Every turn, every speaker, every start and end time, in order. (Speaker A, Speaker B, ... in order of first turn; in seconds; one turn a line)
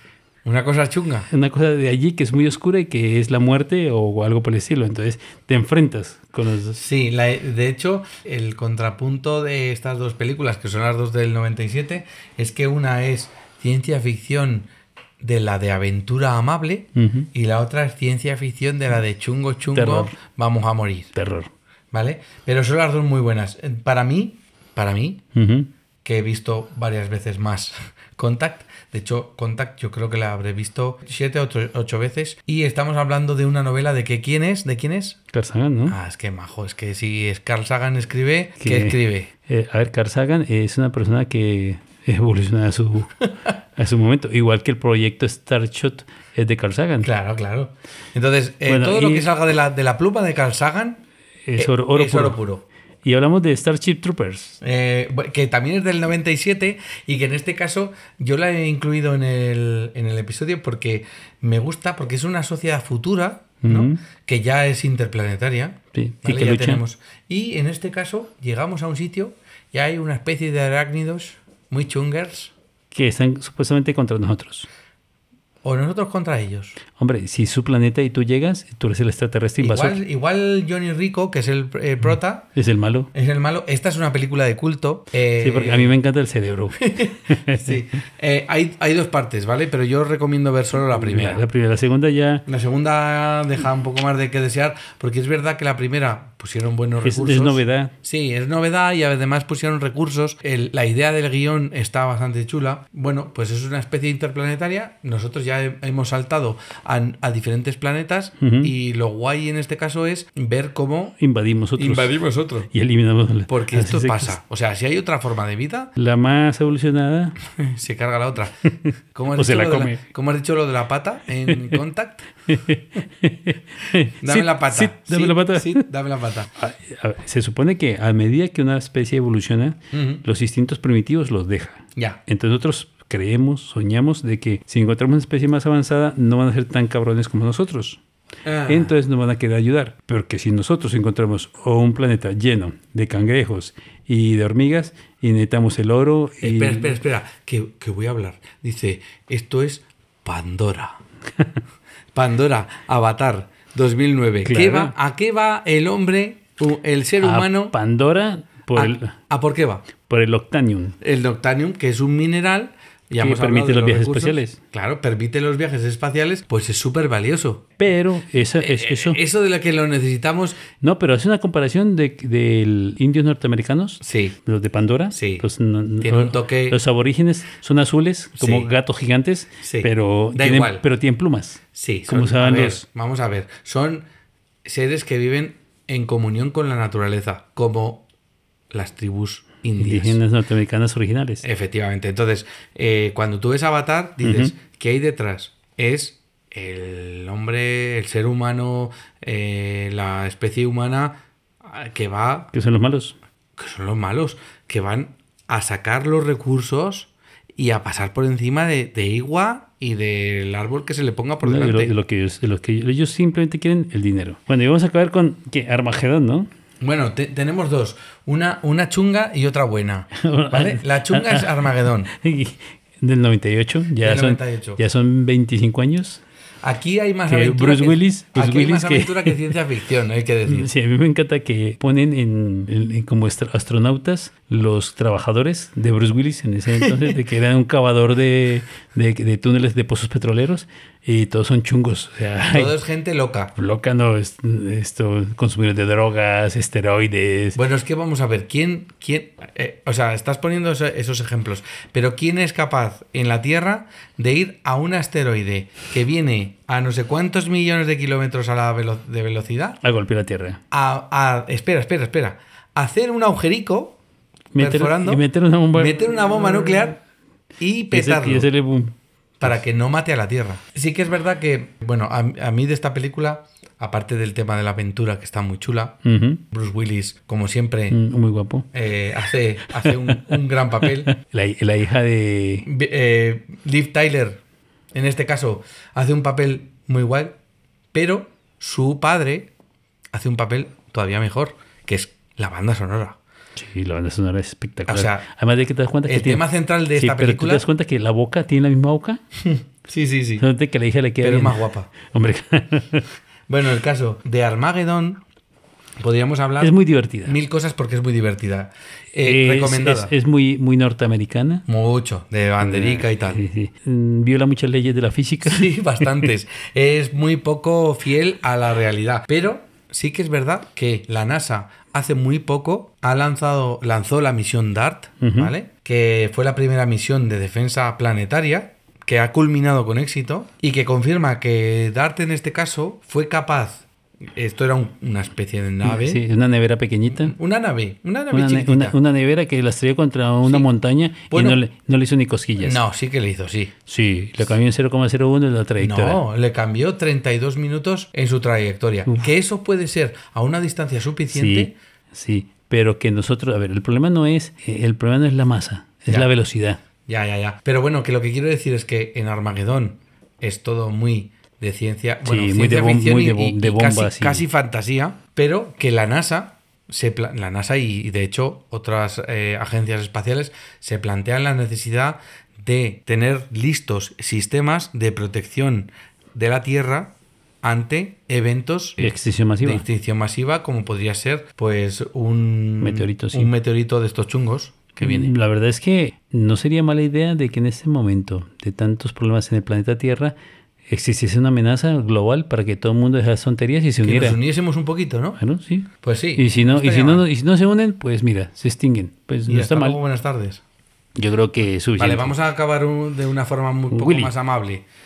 Speaker A: 0.4-1.3
Speaker B: 1.3-6.8
Speaker A: 6.7-14.7
Speaker A: 15.2-21.1
Speaker B: 16.9-17.3
Speaker B: 19.7-20.1
Speaker B: 21.1-21.5
Speaker A: 21.9-25.2
Speaker B: 25.3-25.7
Speaker A: 26.0-35.2
Speaker B: 35.3-36.0
Speaker A: 35.9-39.3
Speaker B: 38.6-47.1
Speaker A: 47.0-51.0
Speaker B: 48.6-49.3
Speaker B: 51.4-52.4
Speaker A: 51.6-52.6
Speaker B: 53.0-54.6
Speaker A: 54.6-72.5
Speaker B: 63.6-64.0
Speaker B: 65.9-66.8
Speaker B: 72.9-74.7
Speaker A: 75.6-76.8
Speaker B: 77.0-80.0
Speaker A: 79.6-82.5
Speaker B: 82.5-83.1
Speaker A: 83.1-85.9
Speaker B: 85.4-87.8
Speaker A: 86.8-91.4
Speaker B: 90.9-92.4
Speaker A: 92.5-111.2
Speaker B: 97.0-97.9
Speaker B: 108.4-108.7
Speaker B: 111.2-112.2
Speaker A: 111.8-112.7
Speaker B: 112.7-114.3
Speaker A: 113.5-115.9
Speaker B: 116.0-117.4
Speaker A: 117.5-122.3
Speaker B: 118.8-120.0
Speaker B: 122.5-125.8
Speaker A: 124.2-126.5
Speaker B: 126.6-138.0
Speaker A: 129.9-130.2
Speaker A: 138.4-138.9
Speaker B: 138.7-147.0
Speaker A: 146.4-151.0
Speaker A: 152.1-157.7
Speaker B: 154.4-154.9
Speaker B: 157.2-159.2
Speaker A: 158.7-159.8
Speaker B: 160.0-160.9
Speaker A: 161.0-167.7
Speaker B: 163.2-164.6
Speaker B: 167.8-169.2
Speaker A: 168.6-170.6
Speaker B: 170.8-182.8
Speaker A: 174.0-174.3
Speaker A: 175.1-175.4
Speaker A: 176.0-176.8
Speaker A: 178.4-178.7
Speaker A: 179.6-180.8
Speaker A: 181.7-184.1
Speaker A: 184.6-188.0
Speaker A: 188.7-190.2
Speaker B: 189.8-191.4
Speaker A: 191.4-202.5
Speaker B: 194.2-194.5
Speaker B: 202.5-203.2
Speaker A: 203.6-211.9
Speaker B: 211.4-216.5
Speaker A: 216.8-222.1
Speaker B: 220.2-226.2
Speaker A: 224.0-224.8
Speaker A: 226.6-230.7
Speaker B: 227.3-229.4
Speaker B: 230.4-242.8
Speaker A: 236.8-237.1
Speaker A: 242.5-243.5
Speaker B: 243.6-247.6
Speaker A: 247.6-259.8
Speaker B: 259.8-260.6
Speaker A: 260.7-264.0
Speaker B: 264.5-266.9
Speaker A: 264.6-267.0
Speaker A: 267.6-268.5
Speaker B: 267.9-269.5
Speaker A: 269.4-276.0
Speaker B: 276.0-276.4
Speaker A: 276.5-278.0
Speaker B: 277.9-278.7
Speaker A: 278.7-281.2
Speaker B: 279.9-280.4
Speaker B: 281.1-282.7
Speaker A: 282.6-284.4
Speaker A: 284.9-287.3
Speaker A: 287.9-289.5
Speaker A: 290.1-293.2
Speaker B: 293.6-296.4
Speaker A: 294.9-295.2
Speaker A: 296.1-297.6
Speaker B: 296.9-299.2
Speaker A: 299.4-300.4
Speaker B: 300.4-303.1
Speaker A: 301.2-301.9
Speaker A: 303.5-305.2
Speaker A: 306.0-310.1
Speaker B: 306.6-307.4
Speaker B: 309.2-311.6
Speaker A: 311.7-313.4
Speaker B: 312.6-315.7
Speaker A: 315.4-336.2
Speaker B: 325.2-325.5
Speaker B: 335.8-337.3
Speaker A: 337.1-339.0
Speaker B: 338.3-342.8
Speaker A: 341.3-341.6
Speaker A: 342.6-343.7
Speaker B: 343.9-346.2
Speaker A: 345.8-351.7
Speaker B: 351.3-356.8
Speaker A: 357.1-379.1
Speaker B: 362.2-364.4
Speaker B: 379.0-379.8
Speaker A: 379.6-385.3
Speaker B: 382.8-383.5
Speaker B: 385.0-390.3
Speaker B: 390.9-394.4
Speaker A: 394.0-395.4
Speaker B: 395.4-400.0
Speaker A: 396.0-397.2
Speaker A: 399.5-400.6
Speaker B: 401.1-402.3
Speaker A: 401.9-404.8
Speaker B: 403.9-404.3